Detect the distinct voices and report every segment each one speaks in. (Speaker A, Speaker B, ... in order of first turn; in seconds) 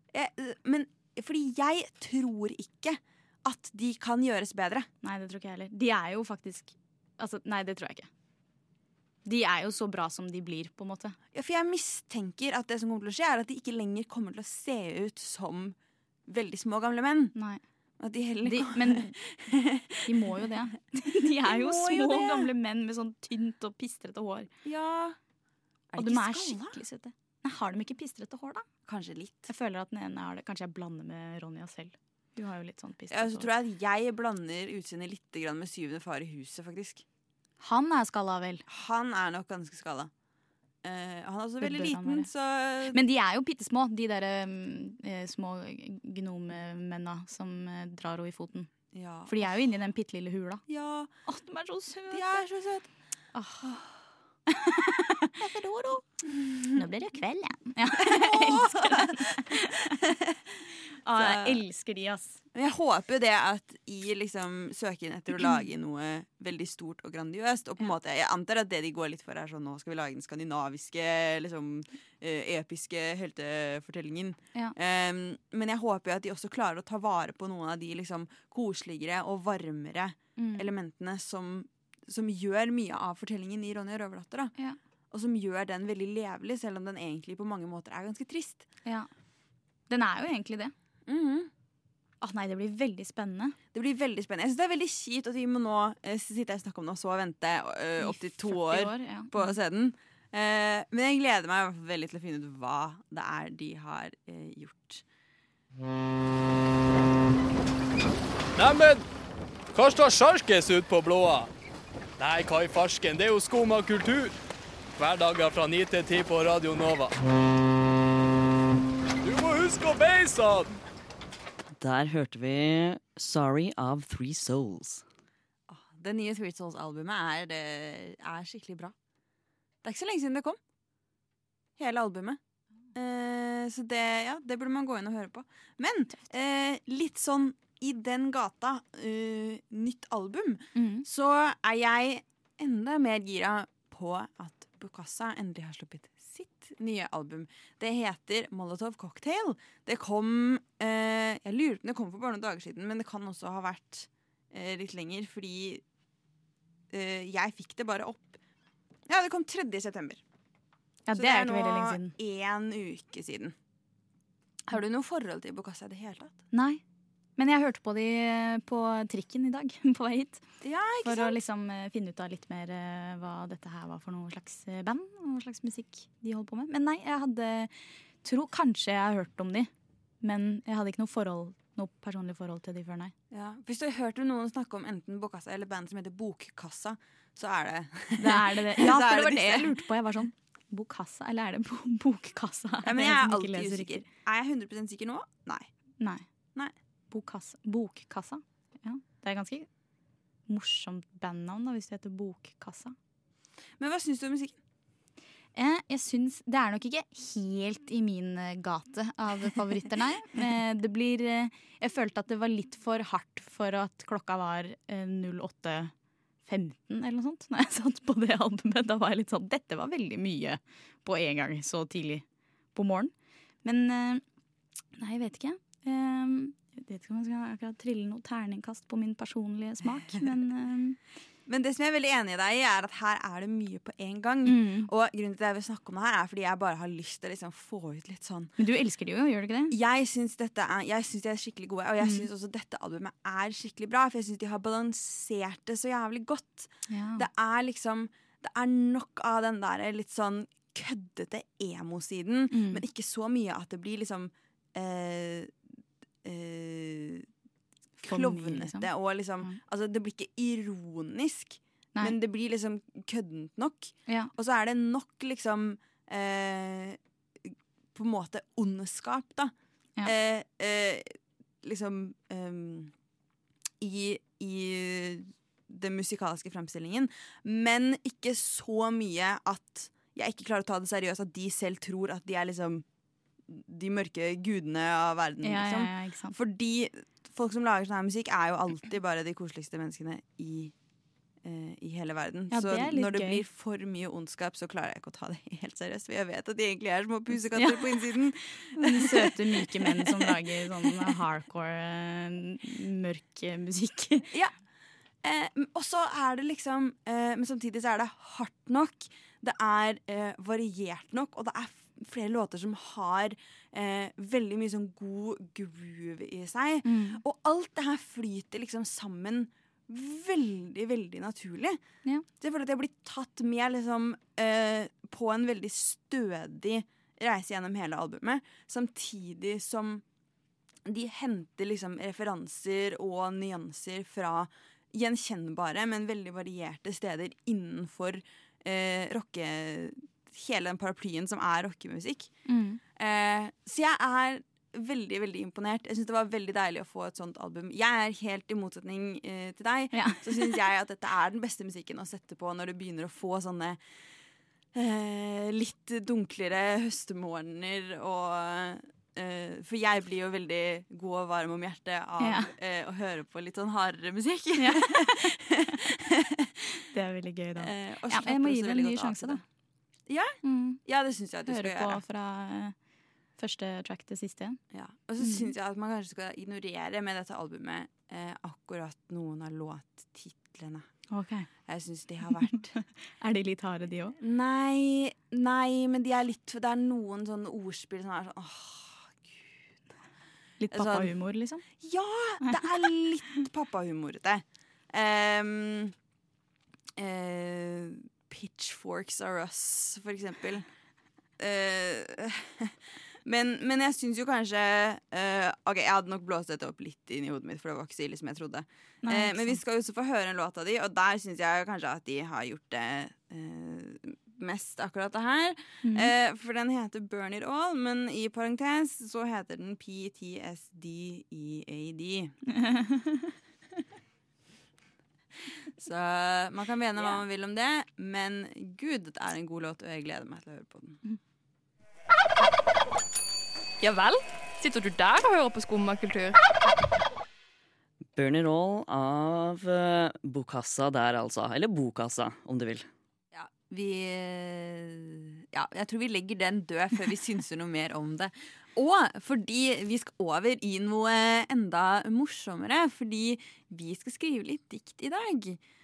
Speaker A: 0.1-4.9, 11.3-15.8, 16.3-17.3, 18.0-20.1, 21.4-22.5, 24.6-25.2, 25.9-26.8, 28.9-29.5, 33.1-37.0, 38.7-40.1, 40.8-43.0, 48.9-49.7, 50.7-51.1, 52.1-52.9, 55.4-56.8, 58.0-59.7, 61.1-61.6, 62.5-84.5, 85.1-88.7, 91.1-91.5, 93.7-105.0, 125.7-128.9, 129.8-130.6, 131.8-132.4, 132.9-155.8, 156.9-158.4, 159.1-160.2, 161.2-163.6, 164.7-166.3, 170.6-171.4, 183.3-189.9, 192.8-195.7, 203.8-204.6, 231.5-238.5, 239.7-255.6, 256.2-257.3, 258.0-267.0, 267.9-272.9, 273.8-282.8, 283.5-290.7, 291.4-300.9, 305.2-321.8, 322.4-330.0, 330.9-342.3, 343.0-353.8, 354.7-365.6, 367.6-369.4, 370.1-372.0, 374.7-380.9, 381.7-382.7, 384.2-389.4, 390.7-391.1, 391.8-395.9, 397.0-400.6, 401.4-422.4, 425.8-431.1, 443.3-455.6
Speaker B: 5.0-8.1, 9.2-11.2, 17.4-17.6, 18.4-19.1, 20.1-24.5, 26.0-28.7, 29.5-33.5, 37.6-38.6, 41.6-42.3, 42.9-48.7, 49.3-50.6, 51.2-52.3, 53.3-53.9, 54.5-55.3, 56.7-60.0, 61.0-62.4, 80.4-80.7, 89.9-90.7, 92.2-93.6, 98.0-99.6, 140.8-141.1, 161.1-162.1, 166.5-166.8, 167.4-170.4, 171.0-179.7, 180.2-183.1, 188.2-194.1, 197.1-199.7, 200.5-202.9, 205.6-215.9, 216.4-223.1, 223.6-224.2, 225.0-231.0, 234.4-234.9, 238.6-239.7, 242.0-242.3, 246.9-247.3, 252.5-252.8, 258.0-258.9, 285.4-286.4, 292.5-293.4, 297.5-304.3, 316.8-317.2, 342.5-342.8, 349.9-350.5, 362.2-362.5, 364.6-365.5, 366.9-369.4, 370.4-370.8, 371.5-372.8, 373.4-374.6, 375.2-375.5, 381.1-381.5, 382.4-384.2, 390.6-391.6, 409.0-409.6, 415.8-416.1, 422.5-423.3
Speaker C: 108.6-109.0, 109.7-111.5, 112.2-114.3, 115.0-117.1, 119.2-120.7
Speaker D: 121.8-125.0, 438.1-442.9
Speaker E: 433.8-436.4